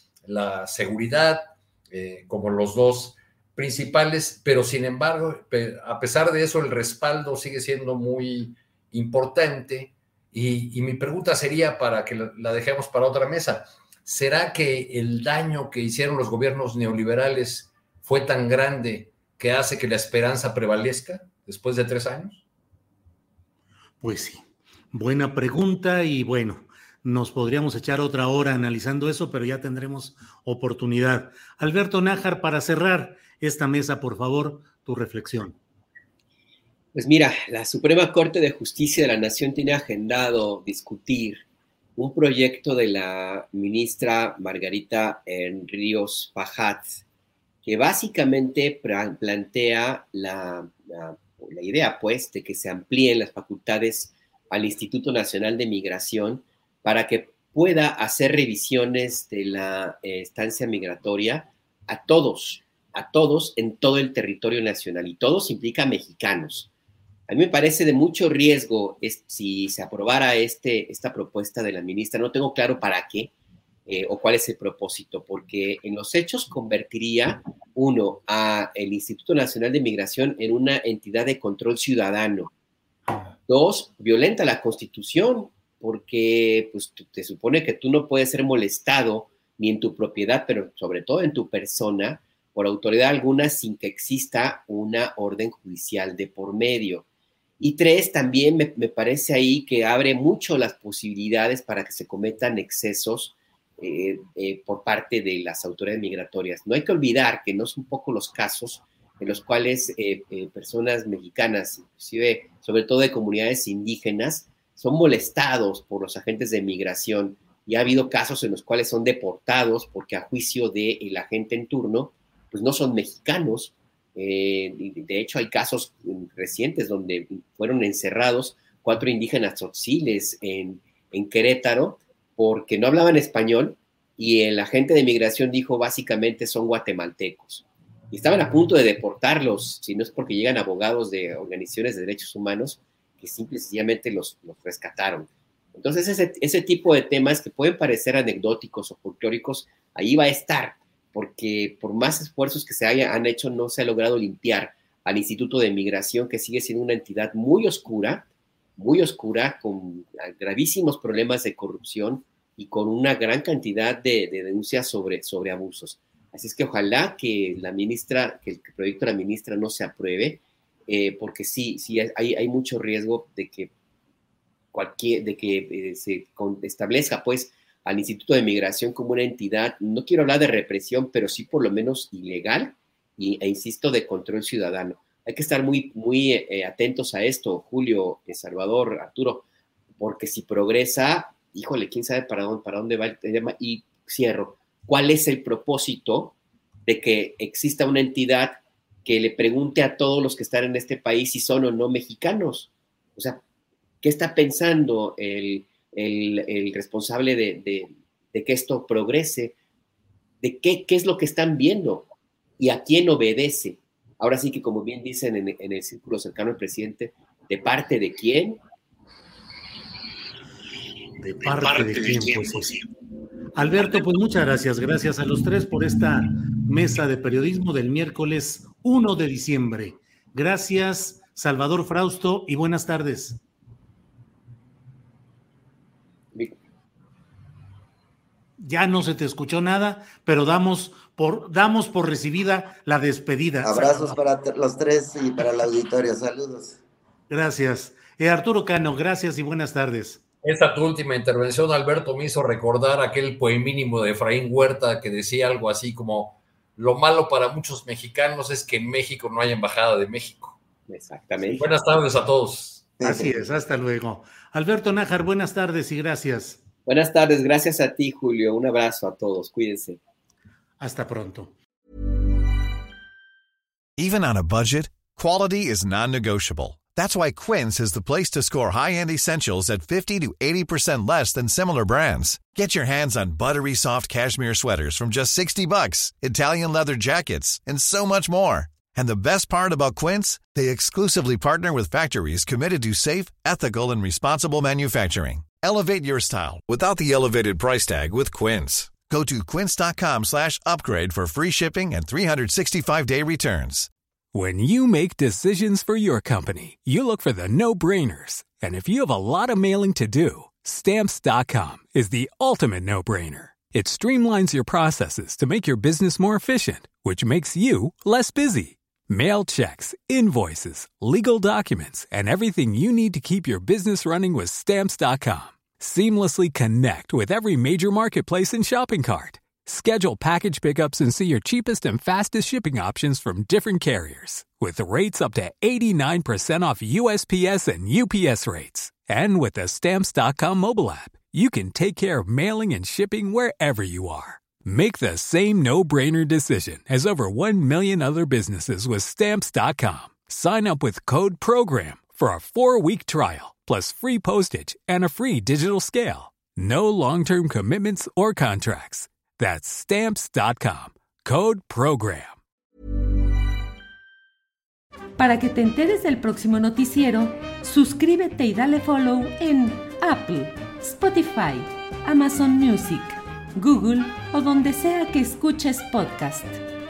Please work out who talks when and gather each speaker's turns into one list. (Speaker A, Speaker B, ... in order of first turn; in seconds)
Speaker A: 0.2-22.4, 222.0-222.4, 250.4-260.6, 261.6-262.9
Speaker B: 24.0-35.6, 221.2-222.8, 223.5-233.4, 238.6-244.2, 247.3-250.2, 263.0-266.6, 270.8-271.5
Speaker C: 36.9-41.4, 42.0-47.0, 47.6-66.7, 67.3-73.3, 73.9-82.5, 83.5-97.0, 97.6-158.2, 158.8-173.7, 174.7-189.4, 190.0-203.4, 204.0-209.5, 210.4-212.1, 212.6-218.6, 260.9-261.7, 266.9-270.0
Speaker D: 243.6-246.8, 263.0-263.3
Speaker E: 274.0-303.9
Speaker F: 304.3-362.4
Speaker G: 365.2-376.6